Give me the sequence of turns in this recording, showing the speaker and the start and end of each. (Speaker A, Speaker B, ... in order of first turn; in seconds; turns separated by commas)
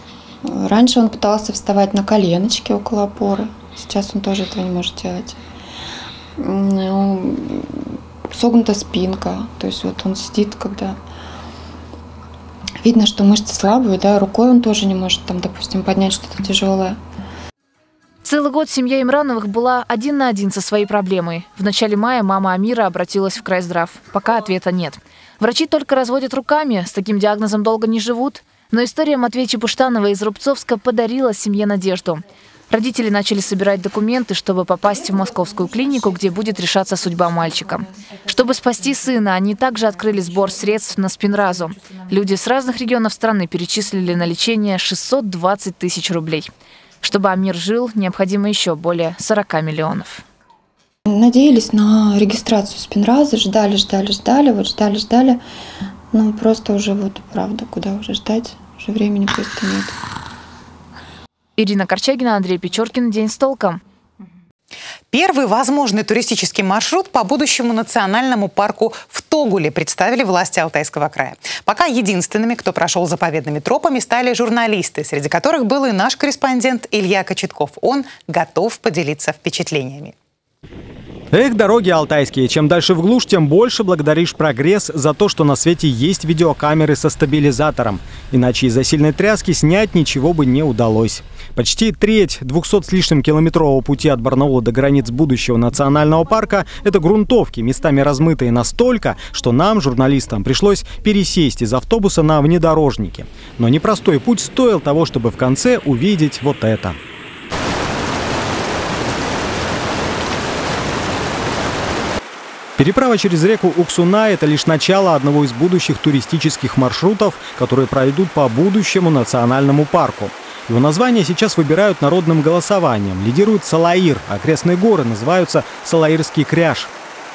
Speaker A: 0.4-5.4, Speaker A: 6.4-10.9, Speaker A: 12.8-17.0, Speaker B: 18.2-46.5, Speaker B: 47.0-50.2, Speaker A: 51.0-55.4, Speaker A: 56.1-59.9, Speaker B: 61.6-63.8, Speaker C: 65.1-80.1, Speaker D: 81.3-107.0, Speaker D: 112.8-126.9